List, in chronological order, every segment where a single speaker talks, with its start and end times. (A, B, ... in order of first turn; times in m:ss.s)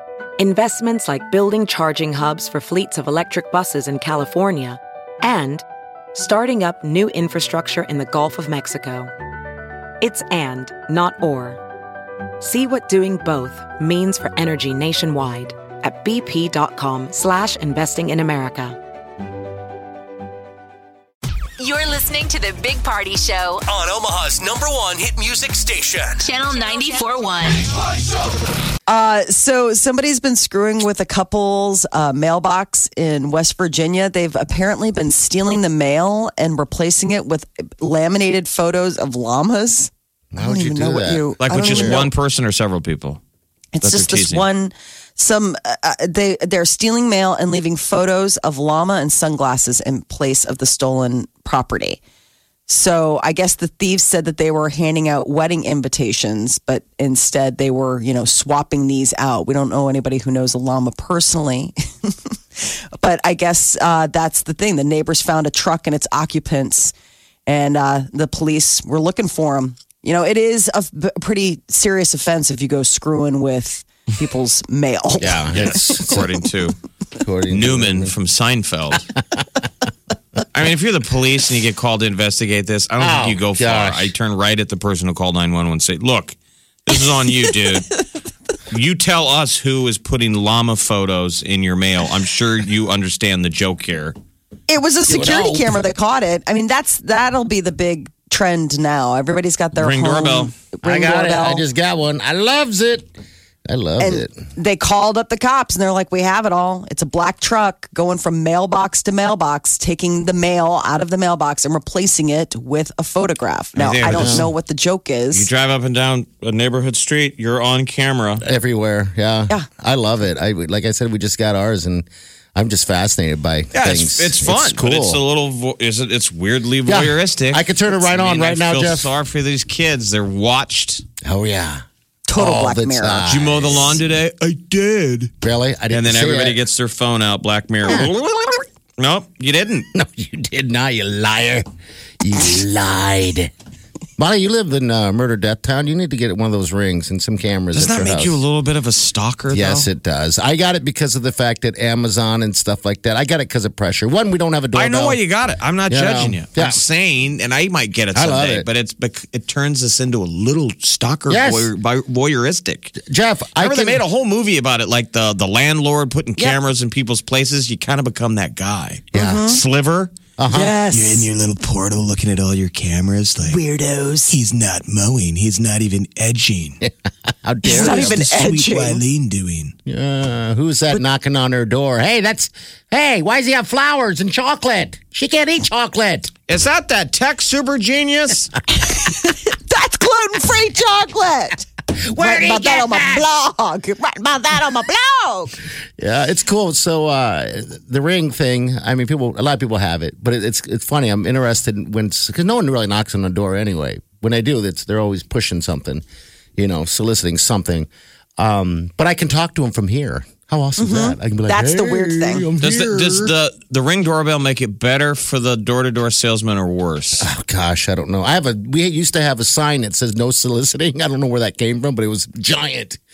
0:00.4-0:05.6 A
0:06.1-0:09.1 A
0:10.0-0:11.6 A
0:12.4-0:18.8 A
0:21.6-0:23.6 B
0:23.6-0:26.2 C
0:26.2-0:27.6 B
0:28.9-0:42.1 D
0:40.3-0:42.0 E
0:41.4-0:43.2 F
0:43.7-0:52.0 D
0:43.8-0:44.4 F
0:52.7-1:06.9 D
1:07.5-1:15.6 D
1:15.2-1:16.2 E
1:15.5-1:16.8 F
1:17.2-1:18.1 E
1:17.5-1:19.1 F
1:20.5-1:28.0 F
1:23.0-1:24.1 E
1:28.7-1:34.2 F
1:34.7-1:41.6 D
1:35.1-1:35.7 E
1:39.8-1:40.5 F
1:40.8-1:43.1 E
1:43.7-1:44.4 E
1:44.0-1:55.5 D
1:53.7-1:54.5 F
1:54.1-1:54.5 E
1:55.3-1:58.4 F
1:58.4-2:05.2 E
2:03.7-2:11.0 F
2:06.8-2:09.1 E
2:11.2-2:11.8 E
2:12.3-2:13.2 D
2:12.3-2:13.9 E
2:13.2-2:15.3 F
2:15.4-2:16.6 E
2:15.9-2:19.9 F
2:17.9-2:18.1 E
2:19.9-2:21.6 E
2:22.2-2:23.5 E
2:24.2-2:28.4 E
2:27.7-2:29.9 F
2:29.5-2:35.2 E
2:34.7-2:43.0 F
2:35.9-2:36.8 E
2:38.1-2:38.7 E
2:41.3-2:41.7 E
2:43.0-2:44.0 E
2:43.6-2:50.1 F
2:49.1-2:49.5 E
2:49.1-2:49.6 D
2:50.4-2:50.8 E
2:50.5-2:51.3 D
2:50.9-2:53.6 F
2:53.4-2:54.4 D
2:54.3-2:56.8 F
2:57.4-2:58.2 E
2:57.6-2:59.0 D
2:57.7-2:59.7 F
2:59.8-3:06.3 E
3:06.5-3:08.5 F
3:08.8-3:15.6 D
3:12.0-3:13.2 E
3:16.0-3:26.0 E
3:26.6-3:33.3 E
3:30.8-3:32.4 D
3:32.6-3:37.3 F
3:37.2-3:43.0 E